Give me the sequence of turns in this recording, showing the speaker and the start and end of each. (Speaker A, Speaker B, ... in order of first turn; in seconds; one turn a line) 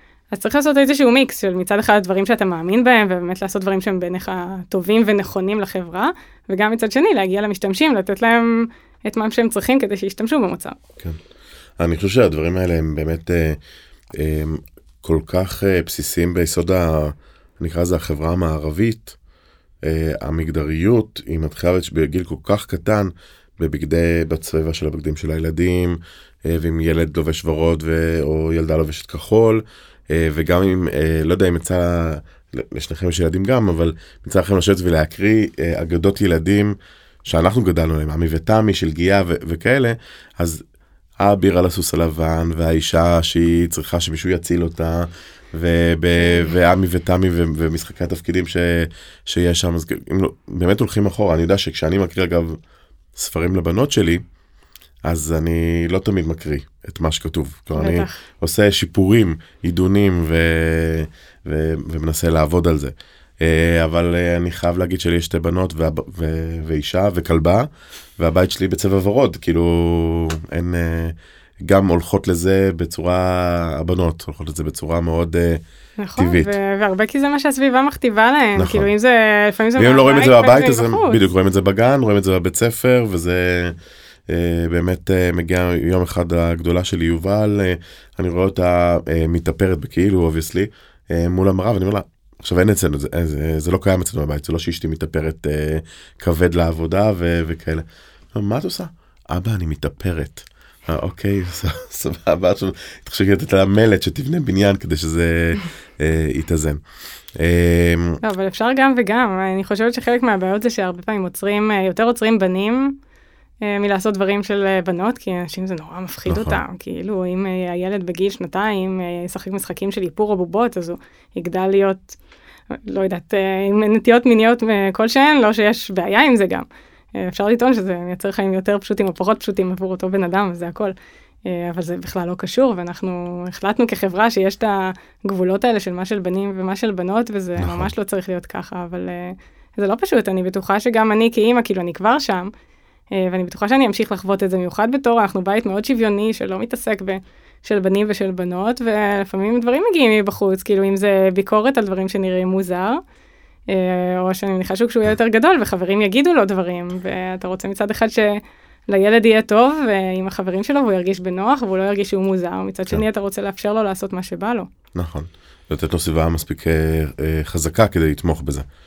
Speaker A: 0.3-10.8
Speaker B: 11.8-13.6
Speaker B: 14.2-19.2
Speaker B: 19.8-36.8
Speaker B: 37.3-40.6
Speaker B: 41.2-52.6
Speaker B: 53.1-54.2
Speaker B: 55.0-75.6
Speaker A: 57.8-58.2
Speaker A: 76.0-81.2
Speaker B: 76.2-76.5
Speaker B: 78.6-78.9
Speaker B: 79.8-83.8
Speaker B: 84.3-106.8
Speaker B: 107.3-108.2
Speaker A: 108.2-113.0
Speaker A: 113.6-122.2
Speaker B: 116.3-116.6
Speaker A: 122.7-130.9
Speaker A: 131.5-142.5
Speaker B: 137.6-137.9
Speaker A: 143.1-153.0
Speaker A: 153.7-164.7
Speaker B: 164.9-168.7